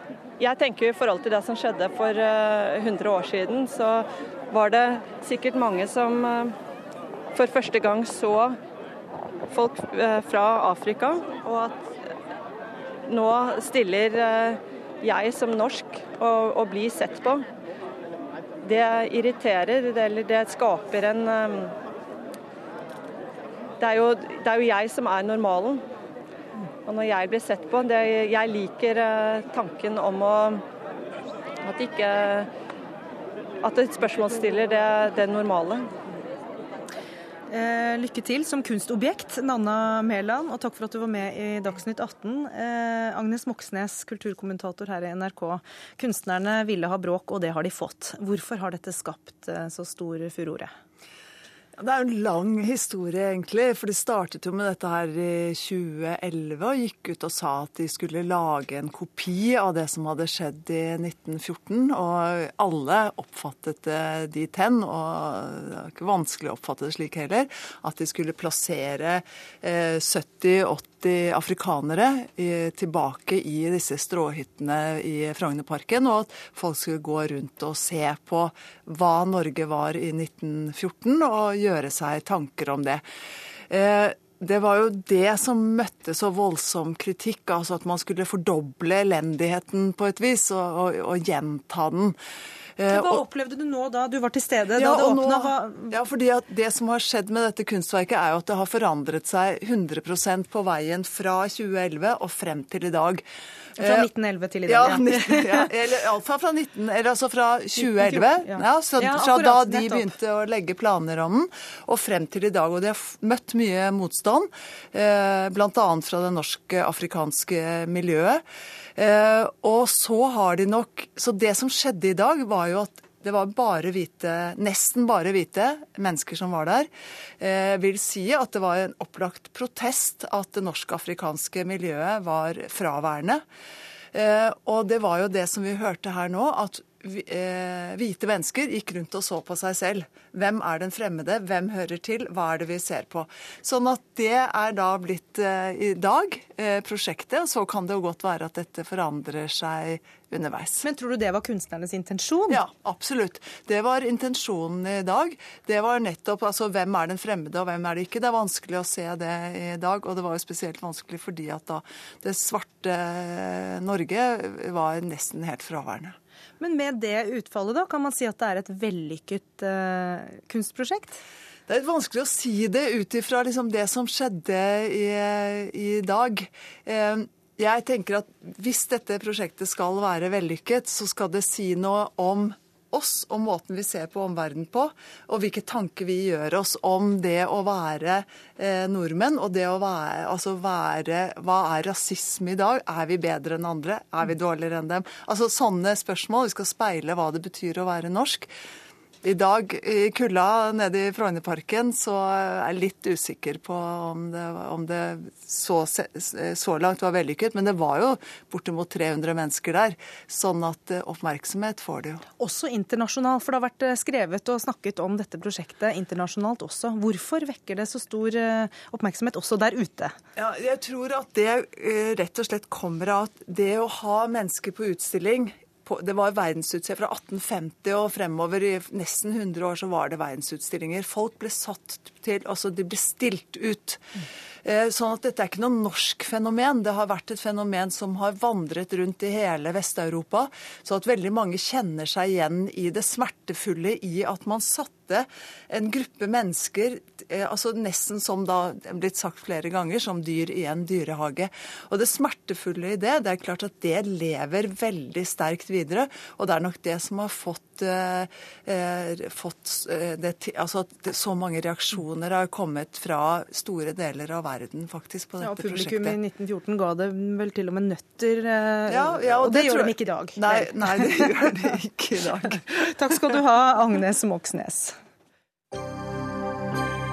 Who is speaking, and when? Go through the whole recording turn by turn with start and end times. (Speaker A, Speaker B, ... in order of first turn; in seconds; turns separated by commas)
Speaker A: 0.4-6.5, Speaker A: 7.3-8.6, Speaker A: 9.5-11.9, Speaker A: 13.1-17.4, Speaker A: 18.6-21.8, Speaker A: 23.8-25.8, Speaker A: 26.9-30.6, Speaker A: 31.6-32.5, Speaker A: 33.6-35.9, Speaker B: 37.5-50.7, Speaker C: 51.8-83.0, Speaker C: 83.7-92.2, Speaker C: 92.8-93.2, Speaker B: 92.9-96.0, Speaker C: 94.7-103.2, Speaker C: 103.8-104.1, Speaker B: 103.8-105.7, Speaker C: 104.7-118.4, Speaker B: 107.8-110.1, Speaker C: 119.0-126.9, Speaker C: 127.4-133.4, Speaker C: 134.1-150.8, Speaker B: 150.8-152.6, Speaker C: 152.5-166.2, Speaker B: 166.6-171.2, Speaker C: 171.7-198.5, Speaker C: 199.2-212.2, Speaker B: 212.4-220.2, Speaker C: 220.4-234.0, Speaker C: 234.7-266.2, Speaker B: 265.4-271.3, Speaker C: 268.9-272.9, Speaker B: 272.5-274.9